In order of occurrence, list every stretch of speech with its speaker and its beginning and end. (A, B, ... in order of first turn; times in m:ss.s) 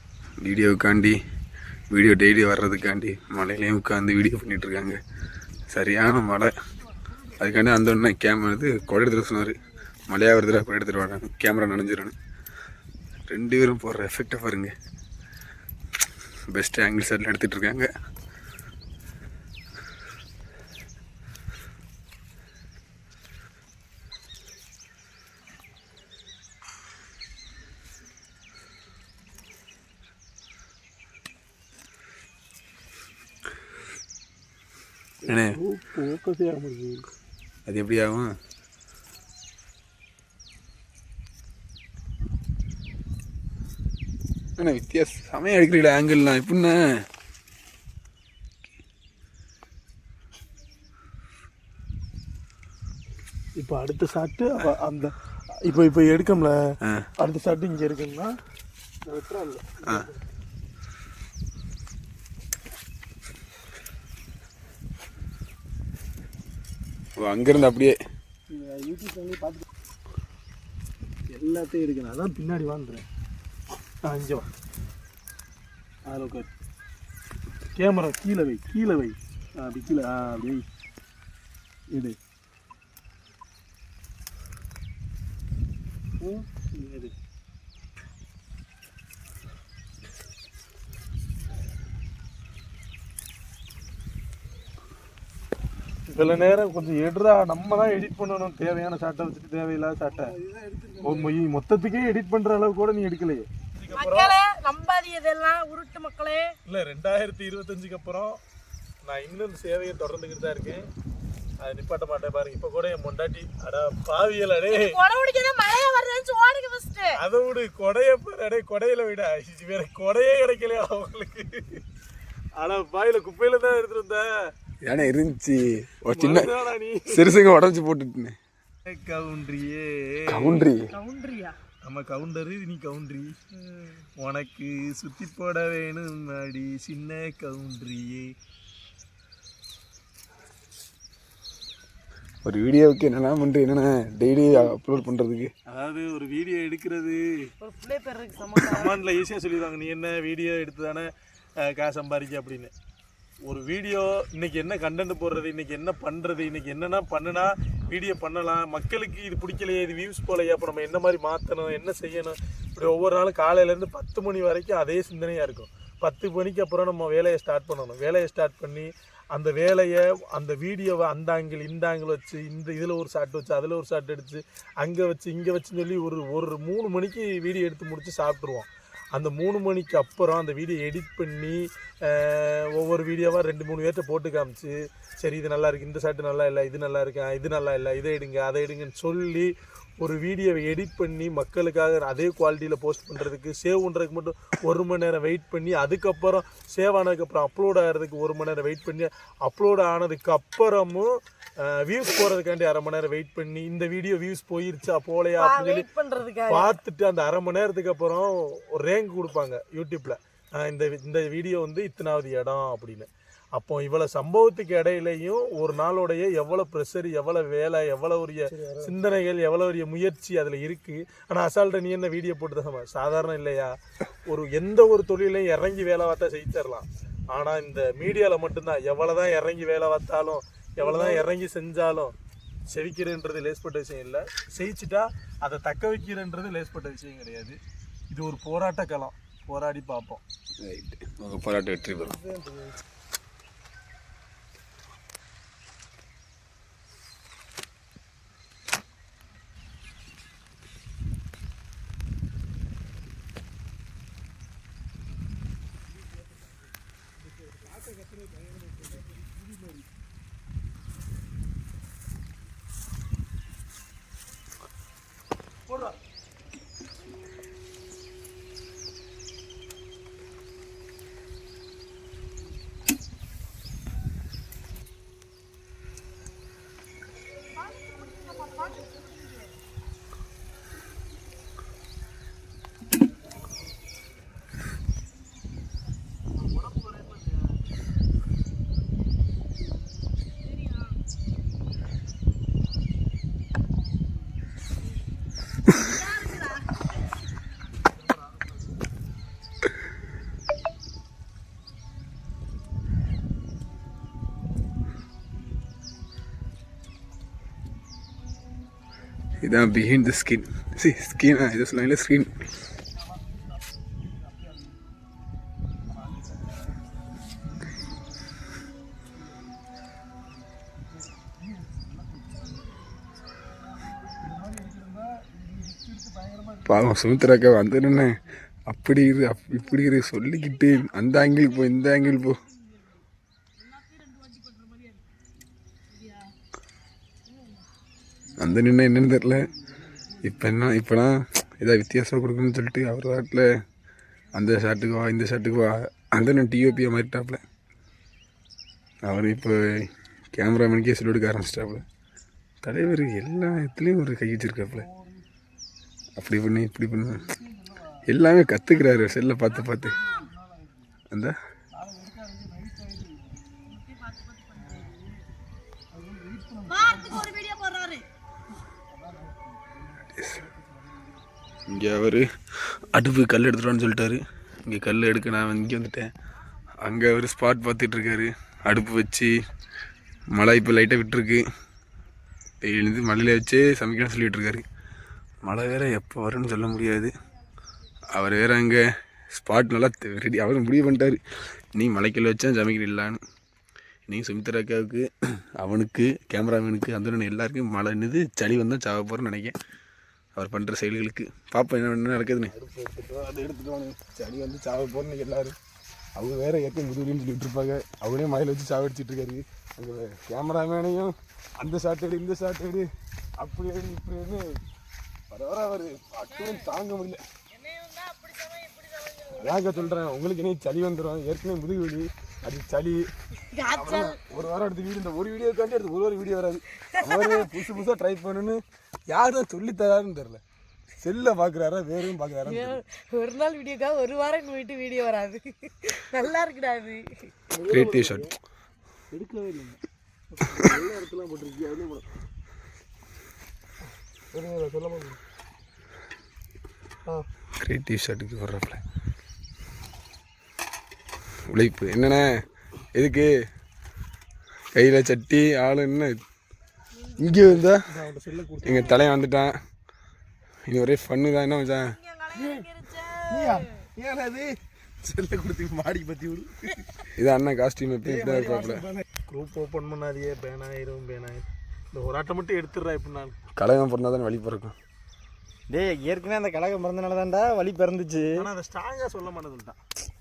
0:00.4-0:01.1 A
0:01.9-0:05.0 A
0:05.7-0:06.5 A
0:07.4-0:12.1 A
0:13.3-0:14.7 A
0:16.5-0:17.9 A
0:35.3-0:35.6 A
0:35.3-0:37.0 B
0:37.7-0:38.3 A
0:44.6-0:46.8 A
0:53.6-0:55.1 B
0:55.6-0:56.6 B
0:57.2-0:58.3 B
0:59.1-1:00.2 B
0:59.8-1:00.1 A
1:07.2-1:08.0 A
1:08.5-1:09.6 B
1:11.3-1:13.0 B
1:14.0-1:14.5 B
1:16.1-1:16.5 B
1:17.8-1:20.7 B
1:21.9-1:22.2 B
1:26.2-1:27.1 B
1:36.1-1:44.4 B
1:43.9-1:46.6 C
1:46.6-1:48.4 B
1:49.0-1:50.9 B
1:51.6-1:55.0 B
1:54.7-1:57.2 C
1:57.2-2:01.8 B
2:02.6-2:04.3 B
2:04.8-2:06.5 A
2:06.1-2:07.3 B
2:07.1-2:08.4 A
2:08.8-2:10.6 B
2:10.3-2:10.9 A
2:10.9-2:11.6 C
2:11.7-2:13.4 B
2:14.0-2:18.3 B
2:22.4-2:25.5 A
2:25.7-2:27.5 B
2:27.6-2:29.0 C
2:28.6-2:31.1 B
2:31.6-2:32.7 B
2:33.4-3:25.9 B
3:25.4-3:26.8 C
3:26.5-3:52.1 B
3:52.7-3:57.6 B
3:58.1-4:00.2 B
4:00.6-4:02.2 A
4:37.6-4:39.4 C
4:46.5-4:47.2 B
4:50.5-4:51.0 C
4:55.7-4:56.7 C
5:09.4-5:12.3 A
5:16.0-5:16.3 B
5:21.5-5:22.4 B
5:24.1-5:26.5 B
5:26.6-5:32.4 A
5:30.6-5:32.8 C
5:33.6-5:35.0 C
5:38.4-5:39.5 A
5:40.2-5:43.5 A
5:44.3-5:47.4 A
5:49.0-5:51.8 A
5:52.6-5:54.9 A
5:56.2-5:57.3 A
5:58.0-6:00.0 A
5:59.8-6:00.8 B
6:01.1-6:01.4 A
6:01.8-6:03.3 B
6:03.7-6:05.0 C
6:04.6-6:05.0 B
6:06.0-6:07.2 B
6:06.7-6:08.1 C
6:09.0-6:09.8 B
6:10.2-6:10.4 A
6:10.5-6:11.0 B
6:11.7-6:16.1 A
6:16.8-6:19.4 A
6:20.3-6:21.4 A
6:22.6-6:24.6 A
6:25.4-6:27.1 A
6:28.1-6:28.8 A
6:29.4-6:31.2 A
6:31.8-6:33.2 A
6:34.1-6:35.1 A
6:35.6-6:39.5 A
6:40.4-6:42.5 A
6:43.5-6:45.6 A
6:46.2-6:52.9 A
6:53.4-6:54.6 A
6:55.3-6:57.2 A
6:56.3-6:56.7 C
6:57.5-7:00.0 C
6:59.3-7:03.0 A
7:03.5-7:04.2 C
7:03.7-7:08.6 A
7:06.8-7:07.7 C
7:09.1-7:10.4 A
7:11.0-7:12.8 A
7:12.4-7:17.5 C
7:17.5-7:18.3 B
7:17.6-7:18.3 A
7:19.1-7:19.8 B
7:20.3-7:22.0 B
7:24.3-7:25.2 B
7:27.6-7:28.8 A
7:31.5-7:32.3 A
7:33.0-7:33.3 A
7:34.7-7:36.2 A
7:37.2-7:37.8 A
7:37.4-7:39.1 B
7:38.6-7:39.5 A
7:40.7-7:42.0 A
7:41.9-7:43.9 C
7:47.2-7:48.9 A
7:49.3-7:53.4 B
7:53.6-7:54.8 A
7:55.7-7:58.5 D
7:58.3-7:59.8 B